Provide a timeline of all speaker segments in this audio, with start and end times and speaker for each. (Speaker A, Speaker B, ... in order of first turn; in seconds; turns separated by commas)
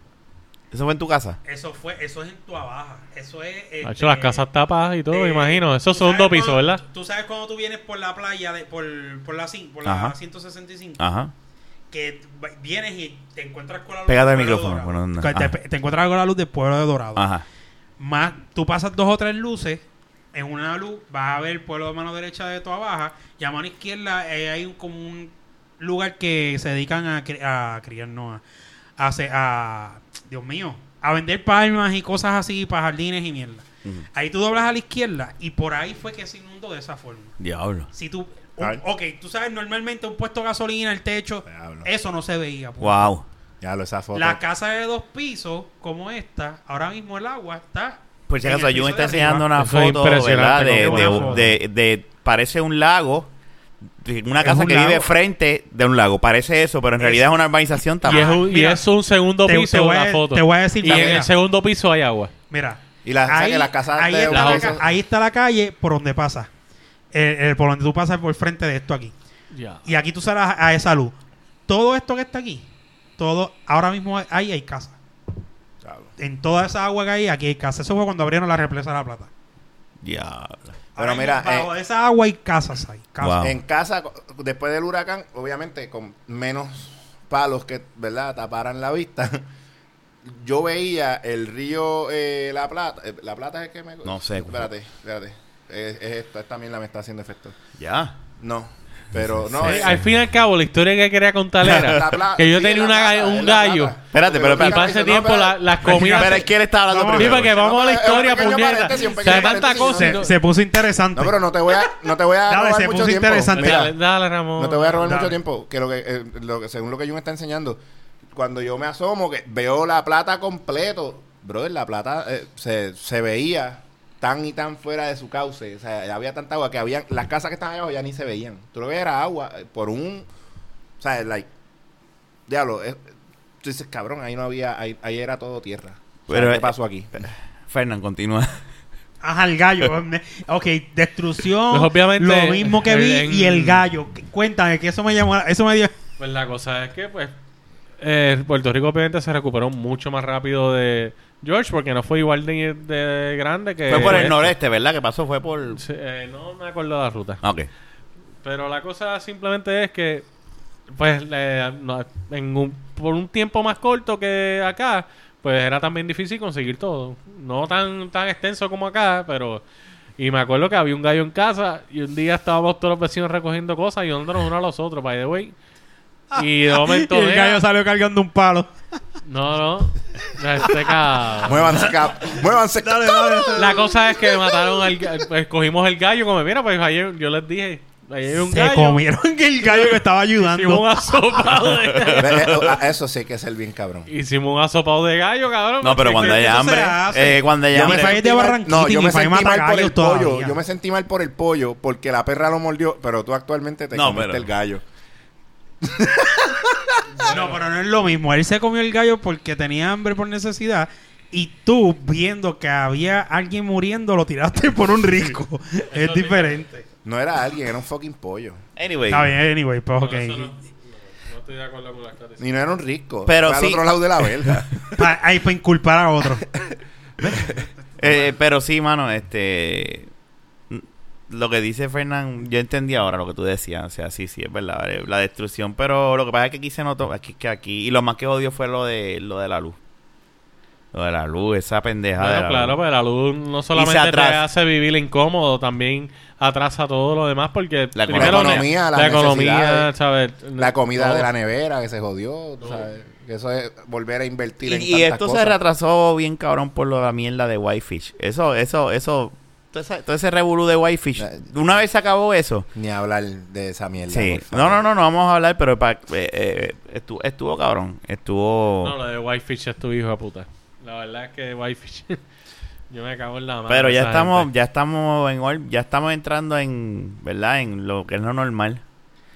Speaker A: 0.7-1.4, Speaker B: 1.4-4.4, Speaker C: 3.8-6.8, Speaker B: 5.1-11.0, Speaker A: 9.8-10.1, Speaker A: 11.0-11.3, Speaker B: 11.9-17.3, Speaker A: 14.1-15.5, Speaker A: 17.1-17.4, Speaker B: 18.0-19.8, Speaker B: 20.3-28.4, Speaker B: 29.0-37.3, Speaker A: 37.4-37.9, Speaker B: 37.9-43.1, Speaker D: 41.5-41.9, Speaker A: 42.8-43.2, Speaker D: 43.6-44.4, Speaker B: 44.1-49.5, Speaker A: 48.3-53.3, Speaker C: 49.5-51.5, Speaker B: 50.7-51.5, Speaker A: 54.0-58.3, Speaker B: 54.4-55.1, Speaker B: 57.0-57.2, Speaker B: 58.0-58.8, Speaker C: 58.1-62.3, Speaker B: 59.5-61.3, Speaker A: 60.9-61.2, Speaker B: 62.5-66.5, Speaker D: 63.0-64.8, Speaker C: 64.3-64.7, Speaker B: 67.1-69.1, Speaker C: 69.5-69.8, Speaker B: 69.8-71.2, Speaker B: 71.7-72.7, Speaker B: 73.2-75.0, Speaker D: 75.8-76.1, Speaker B: 76.2-79.3, Speaker A: 80.0-80.7, Speaker B: 81.0-83.5, Speaker D: 81.0-81.7, Speaker A: 83.2-83.6, Speaker D: 83.4-89.4, Speaker D: 90.2-97.6, Speaker A: 94.0-94.7, Speaker A: 97.8-98.1, Speaker D: 98.4-100.0, Speaker A: 99.5-100.0, Speaker C: 99.6-103.9, Speaker D: 101.6-105.6, Speaker A: 101.7-101.9, Speaker A: 104.1-104.9, Speaker C: 104.5-106.5, Speaker B: 105.8-107.3, Speaker A: 105.9-107.5, Speaker C: 107.1-110.3, Speaker D: 107.3-110.2, Speaker B: 109.1-111.4, Speaker D: 111.1-113.9, Speaker B: 112.5-113.9, Speaker C: 113.5-115.2, Speaker D: 114.6-117.8, Speaker B: 115.0-115.4, Speaker D: 118.3-130.2, Speaker D: 131.0-131.5, Speaker D: 132.5-133.0, Speaker D: 133.6-137.2, Speaker A: 136.3-138.6, Speaker B: 139.2-145.9, Speaker C: 141.7-143.8, Speaker C: 146.2-147.3, Speaker C: 148.0-154.5, Speaker A: 153.9-155.8, Speaker C: 155.8-157.4, Speaker A: 157.4-157.7, Speaker C: 158.4-160.2, Speaker C: 160.9-169.6, Speaker C: 170.2-175.5, Speaker B: 176.3-178.7, Speaker C: 176.3-177.6, Speaker C: 179.2-181.9, Speaker D: 181.4-183.8, Speaker B: 182.8-184.6, Speaker C: 183.6-189.0, Speaker B: 188.4-190.9, Speaker C: 189.7-192.7, Speaker A: 191.9-192.7, Speaker D: 192.1-194.1, Speaker C: 194.1-196.5, Speaker A: 195.8-198.2, Speaker B: 196.1-200.6, Speaker D: 197.7-204.8, Speaker A: 203.9-204.5, Speaker D: 205.8-207.0, Speaker C: 207.2-207.6, Speaker B: 207.2-216.8, Speaker C: 215.9-216.6, Speaker D: 217.0-218.6, Speaker A: 218.8-219.3, Speaker B: 219.1-220.5, Speaker C: 220.0-222.5, Speaker D: 222.4-225.0, Speaker A: 223.2-224.6, Speaker B: 224.9-226.4, Speaker D: 227.2-227.6, Speaker A: 228.0-230.1, Speaker A: 230.7-239.8, Speaker A: 240.9-242.8, Speaker C: 242.2-251.3, Speaker A: 243.7-244.4, Speaker A: 247.9-248.7, Speaker D: 248.1-249.9, Speaker D: 250.6-255.6, Speaker A: 254.6-262.7, Speaker D: 261.2-261.4, Speaker D: 262.7-264.8, Speaker A: 264.1-268.9, Speaker C: 268.8-272.2, Speaker C: 272.9-274.5, Speaker A: 273.7-278.8